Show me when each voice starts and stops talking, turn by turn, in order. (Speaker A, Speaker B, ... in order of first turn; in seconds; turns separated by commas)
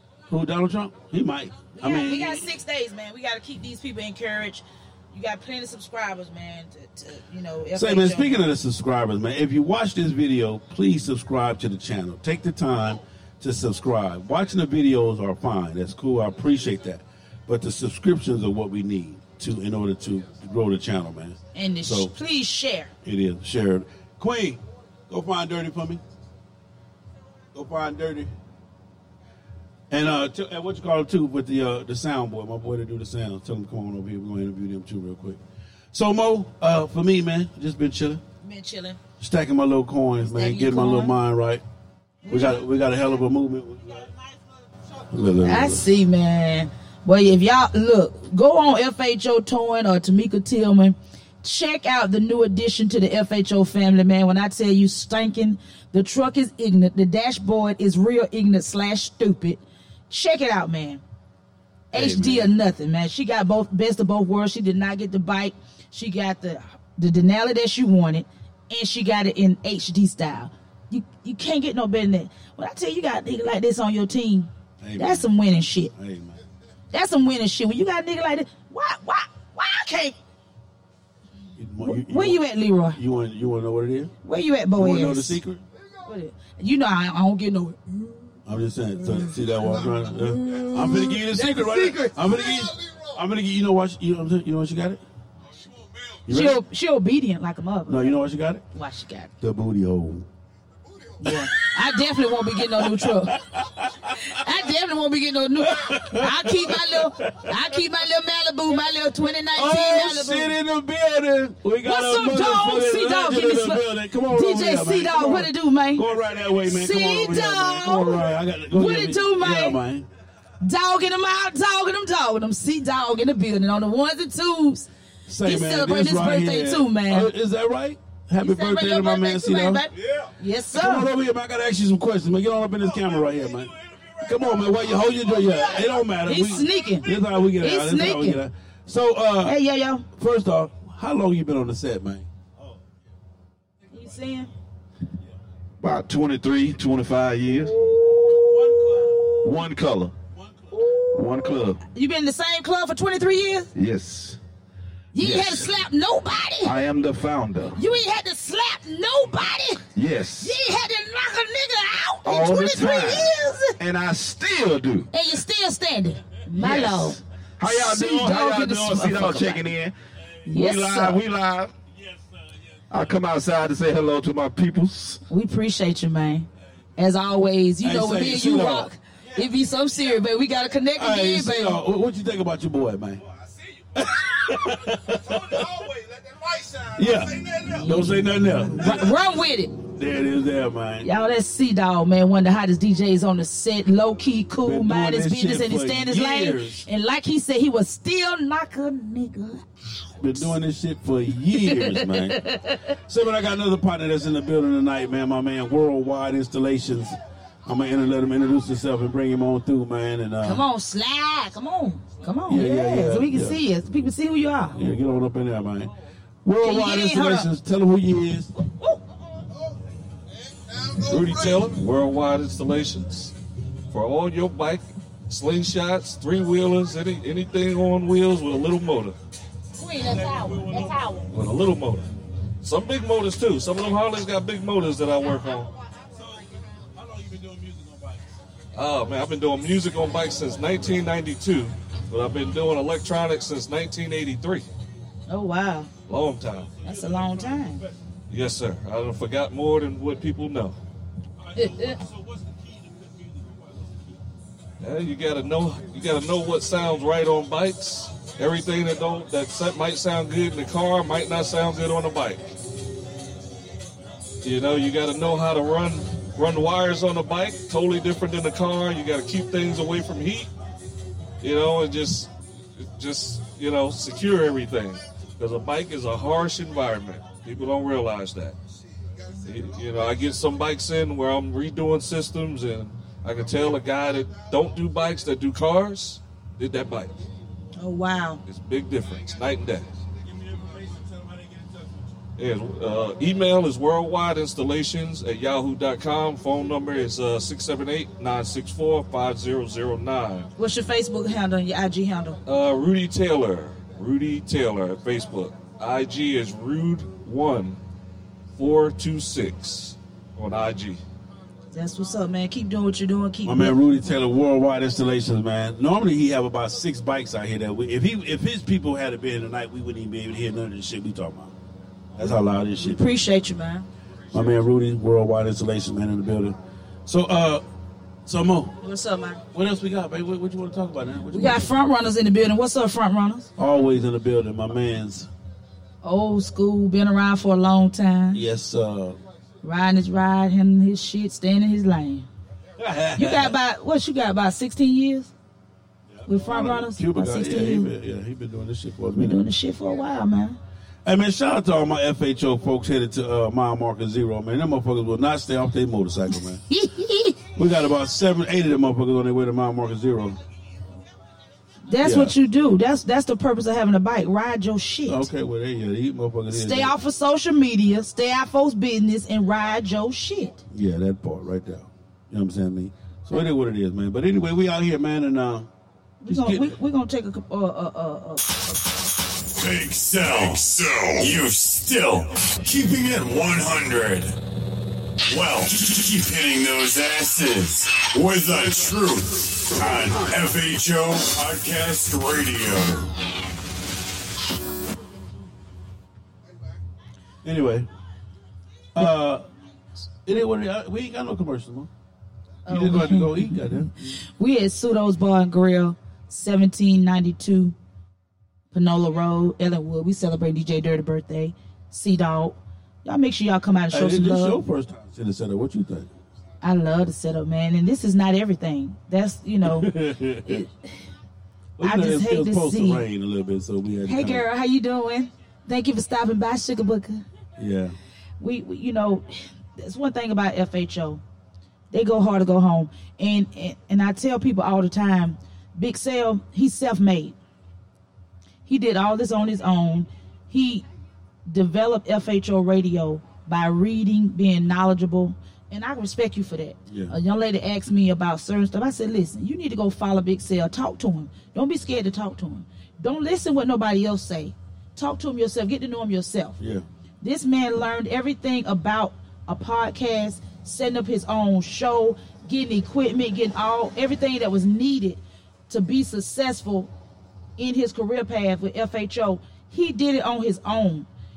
Speaker A: 0.3-2.5, Speaker B: 1.7-8.4, Speaker A: 7.7-22.1, Speaker B: 21.5-22.9, Speaker A: 23.0-26.0, Speaker A: 27.5-28.3, Speaker A: 29.9-35.4, Speaker A: 35.9-38.2, Speaker B: 38.4-39.0, Speaker A: 39.2-41.6, Speaker B: 40.3-41.1, Speaker B: 42.2-42.6, Speaker A: 42.3-44.1, Speaker A: 45.1-45.9, Speaker B: 45.4-61.0, Speaker A: 61.9-62.5, Speaker B: 61.9-75.9, Speaker A: 74.8-75.3, Speaker A: 75.9-76.4, Speaker B: 76.9-80.2, Speaker A: 81.6-84.1, Speaker B: 81.8-83.0, Speaker B: 84.2-85.4, Speaker A: 84.7-85.6, Speaker B: 86.0-88.4, Speaker A: 88.5-95.0, Speaker B: 89.9-92.1, Speaker A: 96.2-96.6, Speaker B: 96.3-98.2, Speaker A: 97.9-98.6, Speaker B: 98.7-99.3, Speaker A: 99.4-100.3, Speaker B: 101.2-103.4, Speaker A: 101.2-101.8, Speaker A: 102.5-104.2, Speaker B: 104.2-110.5, Speaker A: 105.6-107.6, Speaker A: 109.5-120.1, Speaker B: 111.8-116.0, Speaker B: 116.7-119.8, Speaker B: 120.6-124.9, Speaker A: 125.3-139.6, Speaker B: 125.4-127.3, Speaker B: 128.4-131.1, Speaker B: 136.2-138.4, Speaker B: 139.4-140.1, Speaker A: 140.1-142.3, Speaker B: 143.9-144.5, Speaker C: 145.8-147.7, Speaker B: 147.7-149.4, Speaker A: 148.4-149.2, Speaker C: 149.4-150.1, Speaker A: 150.3-150.8, Speaker B: 150.7-153.7, Speaker C: 151.1-151.8, Speaker C: 153.7-154.4, Speaker B: 155.1-156.7, Speaker C: 155.2-155.8, Speaker C: 156.6-157.8, Speaker B: 157.7-159.8, Speaker C: 159.9-160.6, Speaker B: 160.4-163.7, Speaker C: 162.2-165.1, Speaker B: 165.1-169.6, Speaker C: 166.5-169.9, Speaker B: 170.5-171.2, Speaker C: 170.5-171.7, Speaker A: 171.9-172.2, Speaker C: 172.9-175.2, Speaker B: 175.3-181.8, Speaker A: 177.8-179.4, Speaker A: 180.9-183.2, Speaker A: 183.9-185.8, Speaker A: 186.8-189.2, Speaker B: 187.7-189.8, Speaker A: 189.9-191.1, Speaker B: 191.0-199.6, Speaker A: 194.6-196.8, Speaker A: 200.2-202.4, Speaker B: 201.6-202.9, Speaker A: 203.1-210.6, Speaker B: 210.4-214.8, Speaker A: 212.5-213.6, Speaker A: 214.7-215.9, Speaker A: 216.4-218.5, Speaker B: 216.6-217.5, Speaker B: 218.6-219.0, Speaker D: 221.0-223.3, Speaker D: 223.9-229.2, Speaker B: 229.7-231.3, Speaker A: 230.1-231.0, Speaker D: 231.3-232.1, Speaker D: 232.6-235.7, Speaker A: 236.2-238.2, Speaker D: 238.7-244.6, Speaker B: 245.3-245.9, Speaker D: 246.1-246.8, Speaker B: 246.8-247.8, Speaker A: 246.8-247.8, Speaker D: 248.3-250.7, Speaker A: 251.5-253.8, Speaker B: 251.6-252.0, Speaker D: 254.8-262.4, Speaker D: 264.4-270.5, Speaker D: 271.4-278.5, Speaker D: 279.4-287.1, Speaker B: 287.8-288.4, Speaker D: 288.4-289.9, Speaker A: 290.2-291.8, Speaker D: 292.4-300.5, Speaker B: 300.6-302.4, Speaker D: 302.4-307.8, Speaker D: 308.6-311.0, Speaker B: 311.7-313.8, Speaker A: 313.4-321.5, Speaker A: 322.1-323.0, Speaker B: 322.2-323.9, Speaker A: 324.3-327.6, Speaker A: 328.2-328.7, Speaker B: 328.8-329.4, Speaker A: 329.5-331.7, Speaker B: 331.3-333.5, Speaker A: 333.6-335.3, Speaker B: 336.0-338.4, Speaker A: 338.3-339.2, Speaker B: 339.6-342.3, Speaker A: 342.8-343.6, Speaker B: 343.1-345.3, Speaker A: 346.1-349.4, Speaker B: 346.3-347.9, Speaker B: 349.1-350.6, Speaker A: 351.0-356.6, Speaker B: 356.7-357.4, Speaker A: 357.6-360.4, Speaker B: 361.9-365.2, Speaker A: 362.0-362.4, Speaker A: 365.1-366.9, Speaker B: 366.5-370.6, Speaker A: 370.7-375.7, Speaker B: 376.2-378.8, Speaker A: 376.3-376.7, Speaker E: 379.5-384.4, Speaker E: 385.3-393.1, Speaker A: 397.4-397.9, Speaker A: 398.9-399.4, Speaker A: 400.2-401.9, Speaker B: 402.7-403.8, Speaker A: 402.7-404.1, Speaker B: 404.4-407.7, Speaker B: 408.7-414.6, Speaker A: 413.9-416.1, Speaker B: 416.6-419.9, Speaker A: 419.6-420.5, Speaker B: 420.4-420.9, Speaker A: 421.8-424.4, Speaker B: 421.8-423.0, Speaker B: 424.0-427.2, Speaker A: 427.6-427.9, Speaker B: 428.4-431.2, Speaker B: 431.9-437.3, Speaker B: 438.6-440.8, Speaker B: 441.4-456.6, Speaker A: 446.9-447.1, Speaker A: 456.6-456.8, Speaker B: 457.2-466.9, Speaker B: 467.6-471.1